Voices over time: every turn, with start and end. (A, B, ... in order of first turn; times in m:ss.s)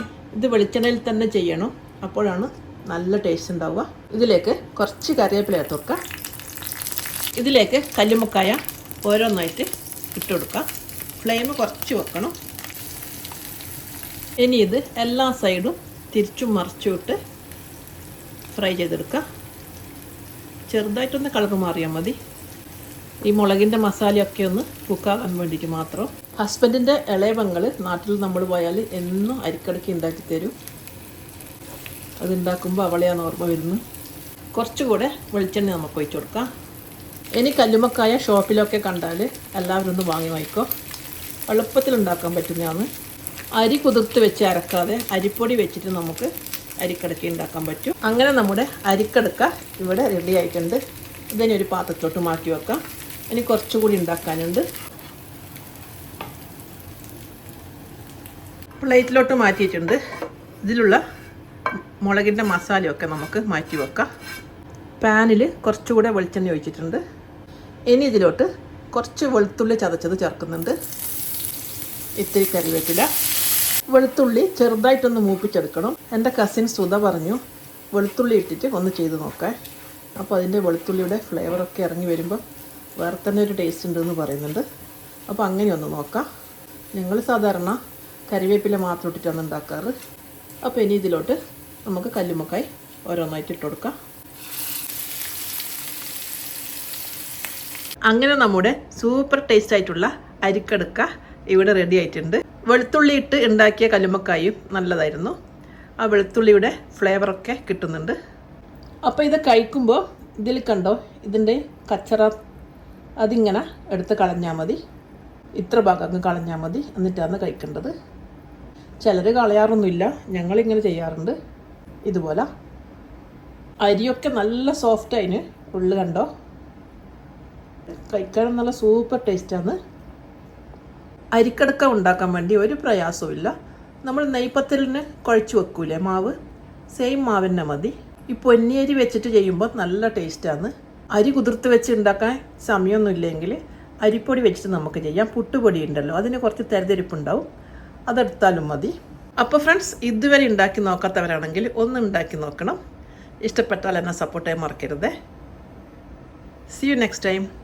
0:00.3-0:06.0 A
0:07.4-0:10.7 A
0:11.2-0:12.4 A
0:14.4-0:17.2 A
0:18.5-0:19.2 A
0:20.7-0:22.2 A
0:23.2-0:30.5 A
0:32.2-0:33.8 A
0:34.5-0:36.5 A
0:37.4-0:40.7 A
0:41.5-0:42.9 A
0:43.6-0:50.8 A
0:51.3-0:54.6 A
0:58.8-1:00.0 A
1:00.6-1:01.0 A
1:02.0-1:04.1 A
1:05.0-1:07.0 A
1:07.9-1:10.8 A
1:12.2-1:13.1 A
1:13.9-1:17.4 A
1:17.9-1:19.6 A
1:20.2-1:22.4 A
1:23.0-1:24.6 A
1:25.3-1:26.2 A
1:26.9-1:29.9 A
1:30.6-1:34.0 A
1:38.1-1:45.4 A
1:46.0-1:48.2 A
1:49.0-1:52.4 A
1:53.2-1:54.8 A
1:55.6-1:57.9 A
1:59.0-2:01.4 A
2:02.1-2:02.5 A
2:03.8-2:06.3 A
2:07.9-2:09.8 A
2:11.3-2:13.5 A
2:14.0-2:16.3 A
2:16.9-2:27.5 A
2:28.1-2:32.8 A
2:33.4-2:35.1 A
2:36.7-2:37.5 A